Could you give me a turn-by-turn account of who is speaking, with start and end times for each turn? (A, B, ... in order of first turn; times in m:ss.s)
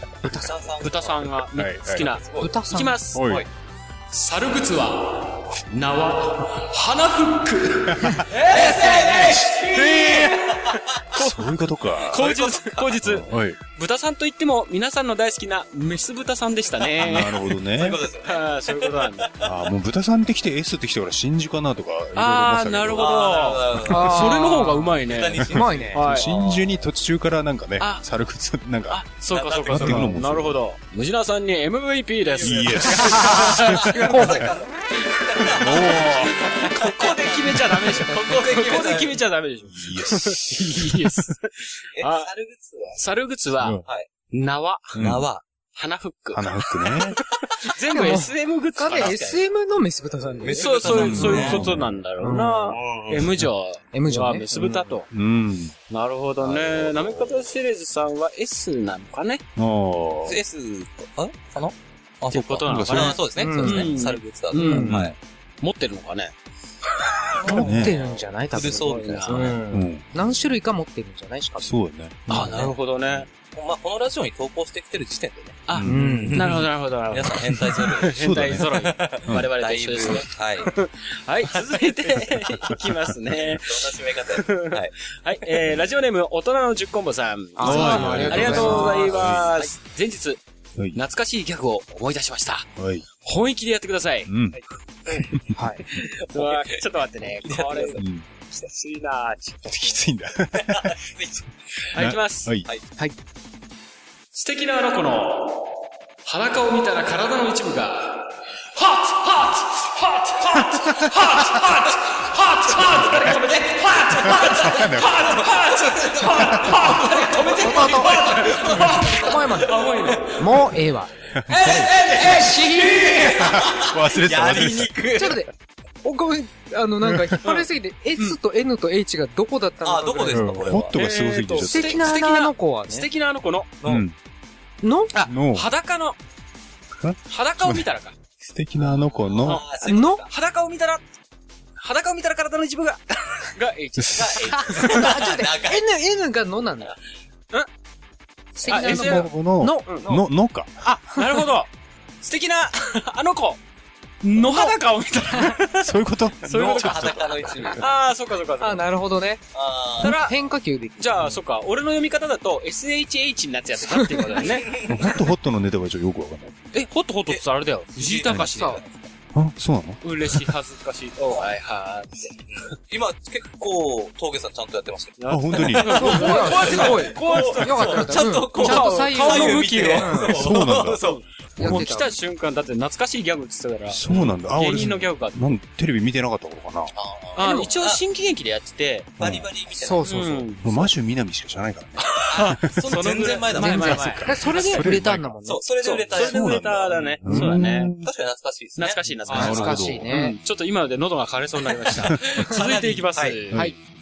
0:00.3-0:01.4 A
0:00.8-0:03.4 B
0:01.5-0:02.1 C
0:01.9-0:02.6 A
0:02.4-0:03.0 D
0:03.1-0:03.5 C
0:03.2-0:03.5 A
0:04.1-0:11.5 B
0:08.5-0:11.3 A
0:11.2-0:12.2 C
0:12.0-0:13.1 A
0:12.1-0:17.6 B
0:13.0-0:13.6 C
0:16.8-0:19.5 A
0:17.0-0:18.0 C
0:18.2-0:19.4 B
0:19.4-0:23.3 C
0:22.2-0:26.4 B
0:22.9-0:26.6 A
0:23.9-0:24.9 D
0:25.5-0:26.0 D
0:25.9-0:29.1 C
0:27.8-0:28.1 B
0:28.9-0:34.5 B
0:29.3-0:30.2 A
0:29.7-0:30.6 C
0:32.3-0:39.2 A
0:32.4-0:34.3 C
0:33.9-0:34.5 D
0:35.6-0:36.3 C
0:36.0-0:42.3 B
0:39.7-0:41.2 C
0:42.0-0:43.0 A
0:43.0-0:45.1 B
0:43.6-0:43.9 C
0:45.0-0:45.2 C
0:45.0-0:45.4 A
0:45.8-0:47.0 B
0:46.3-0:47.2 C
0:47.6-0:49.4 B
0:47.9-0:50.7 D
0:50.4-0:51.7 A
0:50.5-0:55.1 B
0:50.9-0:51.9 C
0:52.2-0:52.8 D
0:53.0-0:53.5 C
0:53.9-0:54.4 D
0:54.6-0:55.7 C
0:55.9-0:59.4 B
0:56.4-0:57.5 A
0:59.6-1:00.4 C
1:00.2-1:05.2 A
1:02.3-1:05.0 B
1:02.7-1:03.2 C
1:03.4-1:04.0 D
1:04.5-1:05.0 D
1:04.9-1:05.2 C
1:05.6-1:06.3 B
1:07.3-1:09.6 A
1:07.4-1:11.7 D
1:07.5-1:07.9 C
1:08.6-1:09.6 B
1:09.7-1:10.0 C
1:11.6-1:12.5 C
1:12.3-1:13.3 B
1:12.3-1:12.7 A
1:13.4-1:20.7 A
1:15.7-1:30.4 B
1:15.7-1:16.5 C
1:15.9-1:16.3 D
1:18.2-1:18.7 C
1:21.4-1:24.9 A
1:25.4-1:25.8 A
1:27.6-1:29.1 D
1:27.6-1:29.5 C
1:28.1-1:28.7 A
1:29.2-1:29.7 A
1:31.0-1:32.7 B
1:32.8-1:33.1 C
1:33.2-1:34.4 B
1:34.3-1:34.6 C
1:35.3-1:35.6 C
1:35.5-1:35.8 D
1:36.0-1:36.8 A
1:36.3-1:40.0 B
1:37.4-1:38.0 A
1:38.0-1:38.3 C
1:39.7-1:41.0 C
1:40.6-1:41.4 A
1:41.9-1:42.5 B
1:42.0-1:42.7 C
1:44.3-1:45.7 B
1:46.3-2:00.7 B
1:52.8-2:00.3 A
1:54.4-1:55.2 C
1:56.4-1:56.8 C
1:57.6-1:59.7 D
2:00.4-2:01.1 D
2:01.4-2:01.9 C
2:01.5-2:03.3 B
2:01.7-2:05.4 A
2:02.2-2:03.3 D
2:03.3-2:05.0 C
2:05.2-2:05.5 D
2:06.0-2:10.8 D
2:07.1-2:07.4 C
2:09.8-2:11.0 A
2:10.3-2:12.1 C
2:10.9-2:13.7 B
2:11.7-2:13.1 D
2:13.8-2:14.1 A
2:13.8-2:14.2 C
2:14.8-2:15.1 D
2:15.1-2:16.2 B
2:15.2-2:15.7 C
2:17.0-2:17.8 C
2:17.3-2:18.2 B
2:18.4-2:19.6 C
2:19.1-2:20.3 A
2:19.4-2:21.0 B
2:19.9-2:20.2 D
2:21.8-2:25.3 B
2:24.1-2:25.9 A
2:24.7-2:26.9 D
2:28.6-2:29.9 D
2:28.7-2:29.3 B
2:28.7-2:30.7 C
2:29.9-2:30.2 B
2:30.9-2:31.2 D
2:31.0-2:31.7 B
2:32.2-2:33.6 B
2:34.2-2:38.9 B
2:35.8-2:37.5 C
2:36.5-2:37.9 A
2:38.6-2:39.4 D
2:39.5-2:40.2 A
2:40.0-2:40.4 B
2:40.0-2:41.4 D
2:41.0-2:44.7 B
2:44.4-2:45.2 A
2:44.8-2:46.5 C
2:46.7-2:48.8 B
2:48.0-2:49.0 A
2:48.4-2:48.8 D
2:49.3-2:50.4 C
2:50.0-2:52.4 B
2:52.5-3:01.2 A
2:55.2-3:00.4 B
2:55.3-2:56.4 C
2:55.8-3:00.4 D
3:00.3-3:01.0 C
3:01.0-3:05.4 B
3:01.6-3:02.1 D
3:01.6-3:02.0 C
3:03.9-3:06.9 C
3:04.1-3:04.4 A
3:06.9-3:08.0 A
3:07.4-3:09.1 B
3:07.4-3:07.7 D
3:09.2-3:09.5 C
3:09.2-3:10.8 A
3:09.8-3:10.4 D
3:10.0-3:10.6 B
3:10.6-3:12.6 C
3:12.0-3:14.6 B
3:12.3-3:14.9 A
3:13.6-3:15.3 C
3:13.6-3:15.6 D
3:15.4-3:17.2 A
3:15.8-3:18.0 B
3:16.1-3:18.1 C
3:17.3-3:17.8 D
3:18.0-3:19.7 A
3:18.8-3:23.6 B
3:19.3-3:20.1 C
3:19.3-3:20.4 D
3:22.0-3:22.2 C
3:22.4-3:23.5 A